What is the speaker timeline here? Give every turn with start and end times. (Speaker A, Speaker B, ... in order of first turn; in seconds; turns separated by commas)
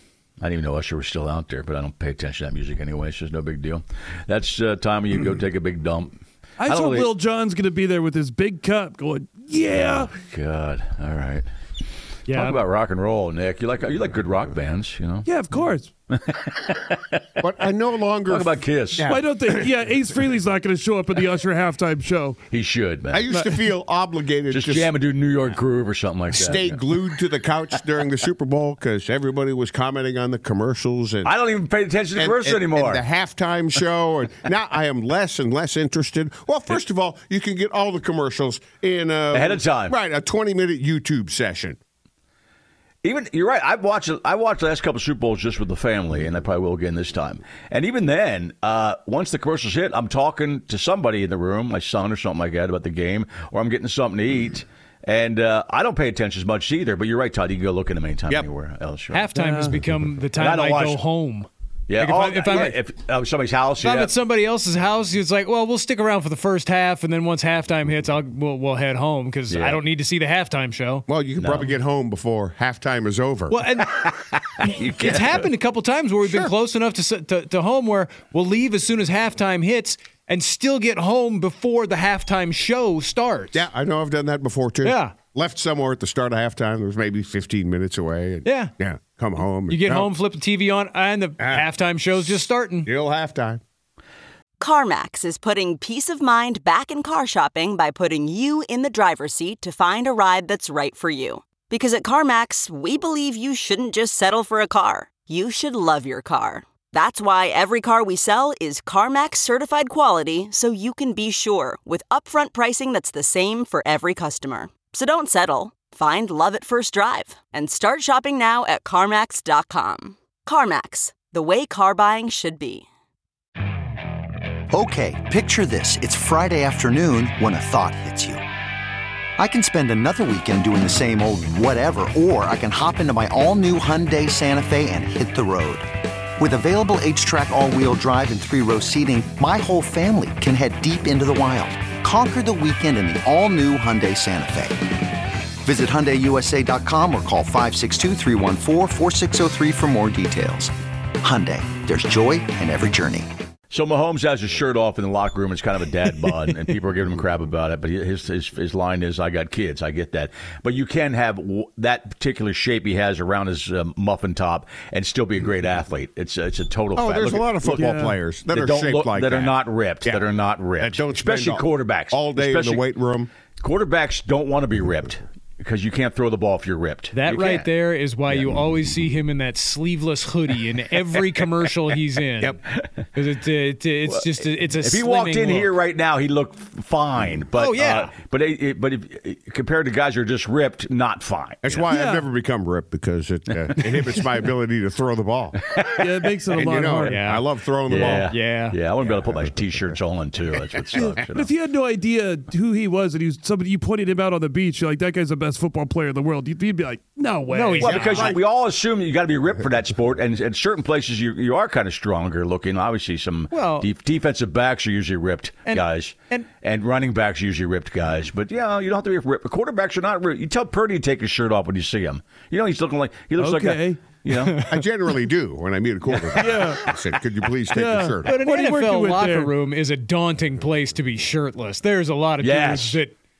Speaker A: 0.4-7.1, Speaker B: 6.6-10.1, Speaker A: 9.7-11.4, Speaker C: 12.3-12.6, Speaker A: 12.3-15.3, Speaker B: 15.2-15.9, Speaker A: 16.1-17.4, Speaker D: 17.4-19.7, Speaker A: 18.3-19.1, Speaker B: 19.1-22.4, Speaker A: 22.5-23.2, Speaker D: 23.1-24.9, Speaker A: 24.5-26.8, Speaker D: 26.3-31.3, Speaker A: 31.2-33.0, Speaker D: 32.1-41.8, Speaker A: 39.3-40.0, Speaker A: 43.0-59.3, Speaker C: 59.1-62.8, Speaker B: 59.3-59.8, Speaker A: 60.4-61.0, Speaker A: 61.9-64.1, Speaker C: 63.8-71.0, Speaker A: 69.5-69.8, Speaker D: 71.1-73.6, Speaker A: 71.4-71.7, Speaker C: 73.5-74.1, Speaker A: 74.0-75.5, Speaker C: 75.0-83.7, Speaker D: 76.2-76.5, Speaker D: 83.5-90.1, Speaker C: 84.8-85.1, Speaker C: 88.4-88.7, Speaker C: 89.7-92.9, Speaker D: 91.4-91.7, Speaker D: 92.8-93.6, Speaker E: 94.6-122.8, Speaker F: 124.7-128.4, Speaker F: 129.4-144.9, Speaker F: 145.6-153.3, Speaker A: 153.7-172.8, Speaker D: 166.9-173.3, Speaker B: 167.7-168.2, Speaker A: 173.6-177.7, Speaker C: 177.1-182.6, Speaker A: 178.3-178.6, Speaker A: 182.7-183.0, Speaker C: 183.1-185.7, Speaker A: 184.1-191.9, Speaker C: 187.5-188.1, Speaker D: 191.6-195.6, Speaker B: 191.9-192.3, Speaker A: 195.7-196.2, Speaker B: 196.0-197.2, Speaker D: 196.6-198.3, Speaker C: 197.0-198.8, Speaker A: 197.9-201.5, Speaker D: 199.0-199.9, Speaker B: 200.9-208.1, Speaker C: 207.5-208.4, Speaker A: 207.8-224.6, Speaker D: 207.9-208.4, Speaker C: 213.5-213.9, Speaker C: 215.7-216.5, Speaker B: 223.4-224.0, Speaker C: 224.3-224.8, Speaker D: 224.7-228.4, Speaker B: 226.3-226.9, Speaker B: 227.7-229.5, Speaker C: 228.2-233.2, Speaker A: 232.4-233.0